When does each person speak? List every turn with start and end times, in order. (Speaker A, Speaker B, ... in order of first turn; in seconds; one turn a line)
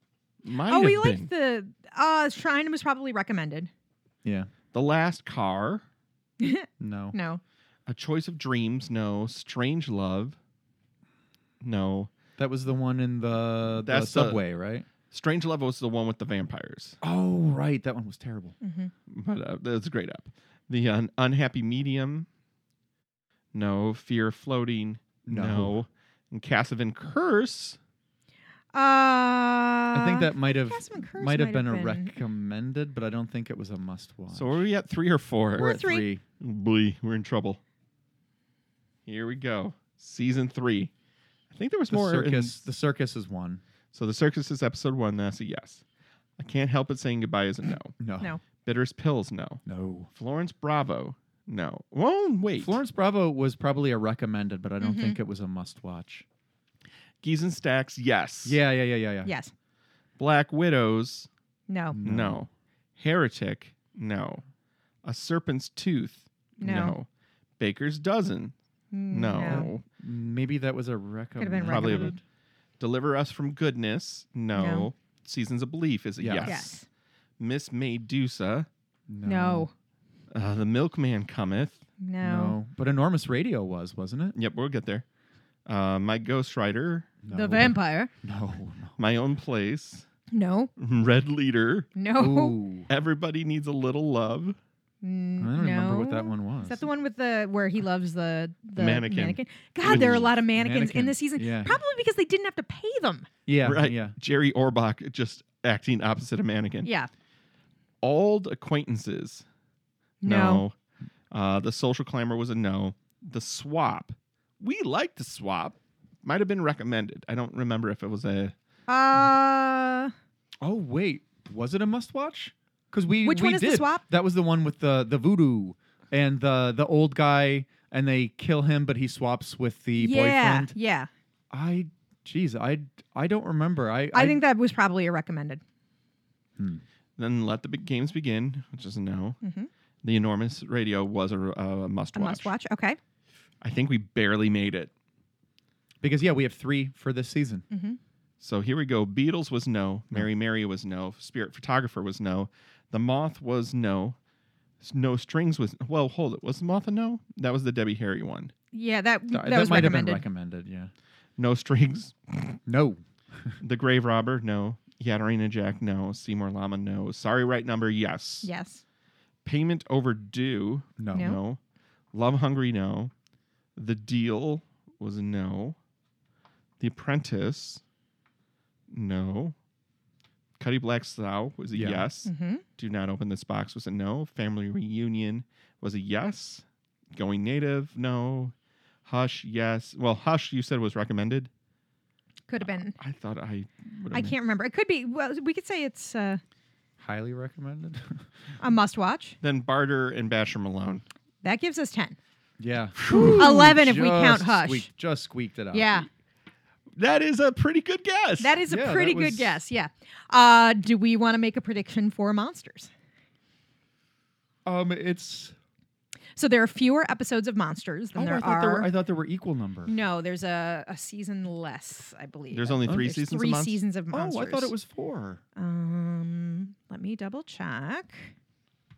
Speaker A: 0.4-1.3
Speaker B: 0.7-3.7
Speaker C: 4.2-4.5
Speaker A: 4.7-5.8
Speaker B: 6.4-7.4
Speaker C: 6.8-7.2
Speaker A: 7.9-10.4
Speaker A: 11.6-12.1
Speaker C: 12.4-14.9
Speaker A: 13.8-14.4
Speaker A: 15.1-17.0
Speaker C: 17.0-18.5
Speaker B: 18.6-18.9
Speaker A: 19.1-22.3
Speaker A: 23.5-27.8
Speaker C: 25.2-25.8
Speaker B: 28.7-32.1
Speaker C: 29.9-34.7
Speaker A: 34.3-35.8
Speaker B: 35.5-36.1
Speaker C: 35.5-36.2
Speaker A: 36.4-37.6
Speaker A: 39.0-40.9
Speaker A: 41.5-42.6
Speaker C: 41.9-43.6
Speaker A: 43.9-45.8
Speaker A: 46.4-47.9
Speaker C: 48.0-48.4
Speaker A: 48.6-49.6
Speaker C: 49.6-50.1
Speaker A: 50.1-52.8
Speaker C: 52.6-56.2
Speaker B: 54.8-55.2
Speaker A: 57.2-58.6
Speaker C: 58.4-59.3
Speaker B: 59.2-59.5
Speaker A: 60.2-61.3
Speaker B: 61.7-62.0
Speaker C: 61.9-62.4
Speaker A: 62.0-64.4
Speaker A: 65.0-67.1
Speaker B: 66.6-67.0
Speaker A: 67.6-68.5
Speaker B: 68.9-69.7
Speaker A: 69.1-69.8
Speaker C: 69.5-72.2
Speaker B: 71.4-72.2
Speaker A: 71.7-72.2
Speaker A: 72.8-76.8
Speaker B: 74.5-74.9
Speaker C: 76.2-76.7
Speaker B: 76.4-76.8
Speaker A: 77.4-78.7
Speaker C: 79.1-79.7
Speaker B: 79.2-79.7
Speaker A: 80.3-81.8
Speaker B: 82.0-82.6
Speaker C: 82.2-84.3
Speaker A: 84.3-85.0
Speaker A: 85.7-87.1
Speaker C: 87.2-89.0
Speaker B: 87.3-88.1
Speaker A: 89.0-90.1
Speaker B: 90.3-90.7
Speaker A: 90.8-91.9
Speaker B: 91.9-92.5
Speaker C: 92.2-92.9
Speaker A: 92.9-94.6
Speaker B: 95.0-103.3
Speaker C: 95.4-96.9
Speaker A: 98.8-100.3
Speaker C: 99.8-101.8
Speaker C: 103.5-104.1
Speaker A: 103.6-106.9
Speaker B: 106.8-107.1
Speaker A: 108.0-109.4
Speaker B: 110.2-110.6
Speaker A: 110.2-110.7
Speaker A: 111.3-118.5
Speaker B: 118.9-120.1
Speaker C: 120.6-130.7
Speaker B: 123.2-124.0
Speaker B: 130.0-131.1
Speaker C: 131.5-134.4
Speaker B: 134.1-135.6
Speaker C: 136.6-136.8
Speaker A: 137.2-139.4
Speaker B: 139.4-139.7
Speaker A: 140.0-142.5
Speaker B: 142.1-143.0
Speaker A: 143.6-144.9
Speaker C: 146.0-147.6
Speaker B: 147.7-148.0
Speaker A: 148.4-154.2
Speaker A: 154.8-158.5
Speaker B: 158.7-160.2
Speaker C: 159.3-160.9
Speaker A: 161.4-162.6
Speaker C: 162.7-163.6
Speaker A: 163.6-168.5
Speaker B: 168.4-168.8
Speaker A: 169.4-171.6
Speaker C: 171.0-171.4
Speaker B: 171.1-171.4
Speaker A: 172.1-173.1
Speaker A: 173.8-175.8
Speaker A: 176.8-177.8
Speaker A: 178.9-179.6
Speaker A: 180.6-188.5
Speaker C: 181.7-182.1
Speaker B: 182.2-182.6
Speaker A: 189.0-191.5
Speaker B: 192.5-192.9
Speaker A: 192.6-194.3
Speaker B: 194.1-196.4
Speaker C: 197.0-198.2
Speaker B: 198.6-199.4
Speaker A: 199.4-201.0
Speaker B: 201.4-202.2
Speaker C: 202.6-206.1
Speaker A: 203.0-203.5
Speaker B: 203.3-204.9
Speaker B: 205.7-206.1
Speaker A: 206.9-208.6
Speaker B: 208.4-212.9
Speaker C: 208.7-209.6
Speaker C: 214.6-215.5
Speaker B: 216.3-218.9
Speaker C: 218.1-219.9
Speaker B: 219.9-224.7
Speaker A: 222.5-223.8
Speaker C: 222.9-223.2
Speaker C: 224.1-225.4
Speaker B: 225.6-228.3